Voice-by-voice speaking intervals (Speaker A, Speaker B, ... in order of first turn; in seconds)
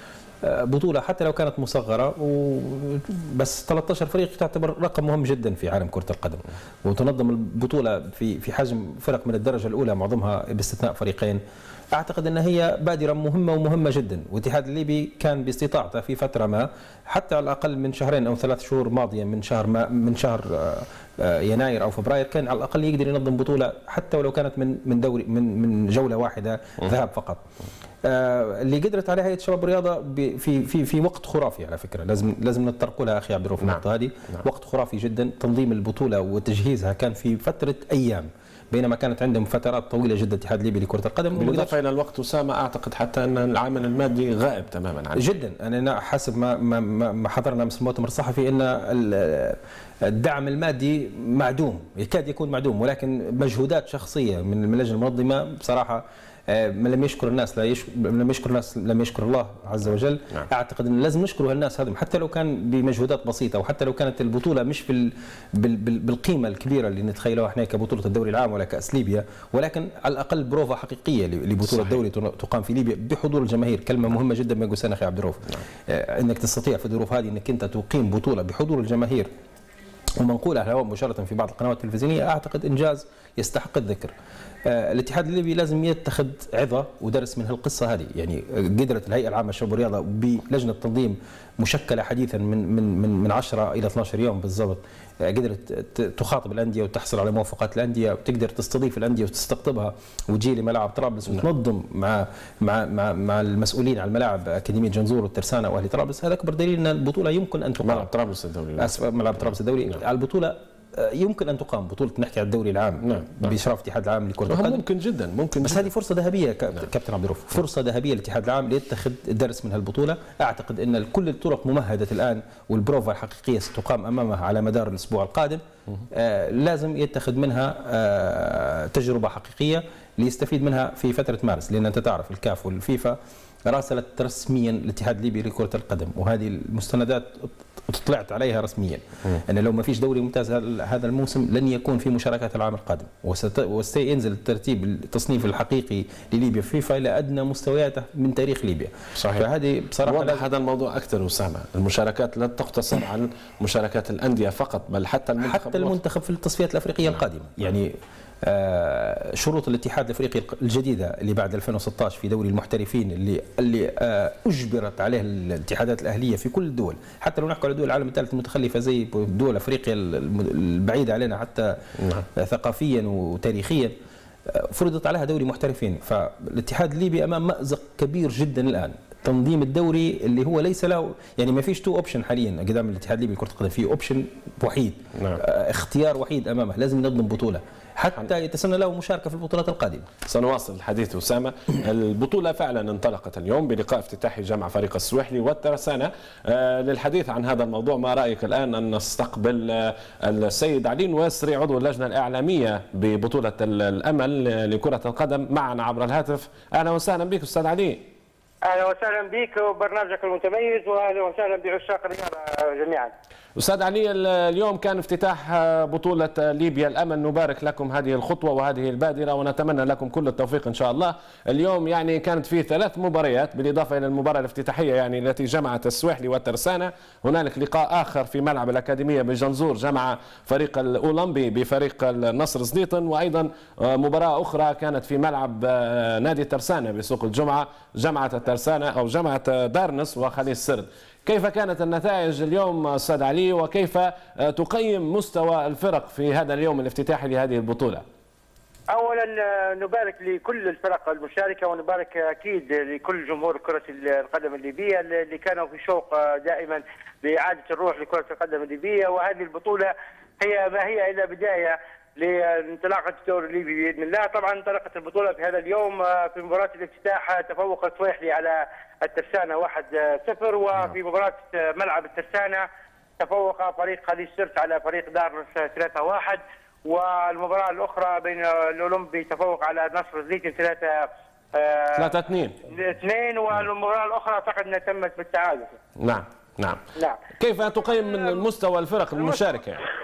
Speaker A: 0.4-11.4, 11.9-27.4, 28.0-41.7, 45.1-79.3, 80.2-84.1, 84.6-108.1, 108.8-114.8, 115.6-150.5, 155.4-171.8, 172.3-173.9, 174.5-190.1
Speaker B: 41.3-45.3, 107.8-109.0, 113.0-113.5, 114.5-115.9, 149.2-149.4, 150.0-155.9, 185.2-185.4, 190.2-208.0, 213.6-248.0, 281.9-282.6, 286.0-286.8, 287.4-289.8
Speaker C: 208.6-213.1, 248.9-272.6, 273.2-282.1, 282.7-285.8